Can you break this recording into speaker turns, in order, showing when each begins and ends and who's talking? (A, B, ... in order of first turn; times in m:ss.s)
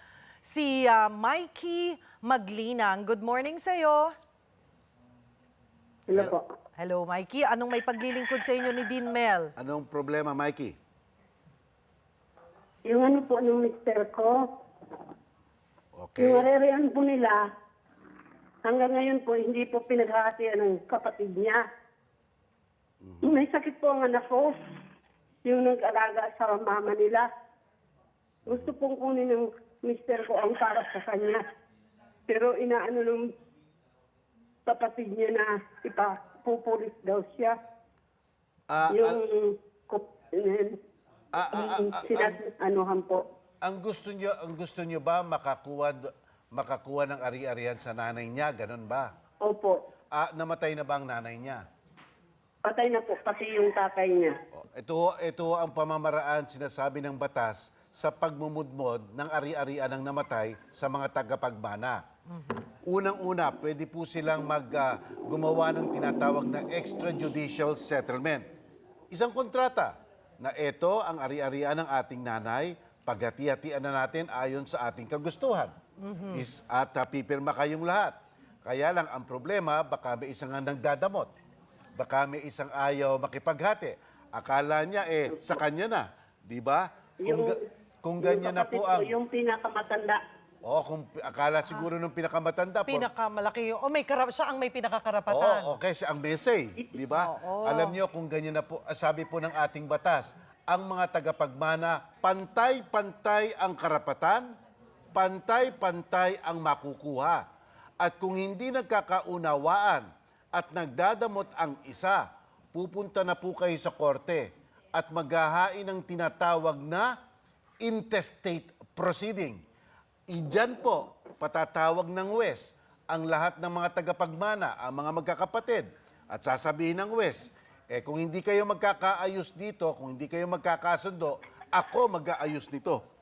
0:00.4-0:04.1 A
0:06.1-0:06.4 B
0:06.8-0:09.5 A
0:09.6-0:10.8 C
0:12.9-0:14.4 B
0:16.0-0:16.5 C
0:16.2-0:17.4 B
0:18.6-0:21.6 B
0:23.0-0:23.4 C
0:23.2-0:24.6 B
0:25.4-0:27.3 B
0:28.4-0:31.4 B
0:32.3-0:33.3 B
0:34.7-0:37.6 B
0:38.7-0:39.2 C
0:38.9-0:40.8 B
0:41.3-0:42.4 C
0:41.5-0:43.2 B
0:43.6-0:49.1 C
0:49.4-0:49.8 B
0:50.1-0:51.6 C
0:52.6-0:54.3 B
0:54.5-1:02.0 C
1:02.9-1:08.4 C
1:09.1-1:15.7 C
1:16.0-1:16.4 A
1:16.3-1:18.1 C
1:18.6-1:21.3 C
1:22.0-1:29.1 C
1:27.2-1:27.6 B
1:28.2-1:30.2 B
1:30.6-1:33.1 C
1:32.9-1:35.8 A
1:35.3-1:44.5 C
1:37.1-1:38.0 A
1:45.1-1:47.4 C
1:48.0-1:57.1 C
1:57.8-1:59.6 C
2:00.3-2:13.0 C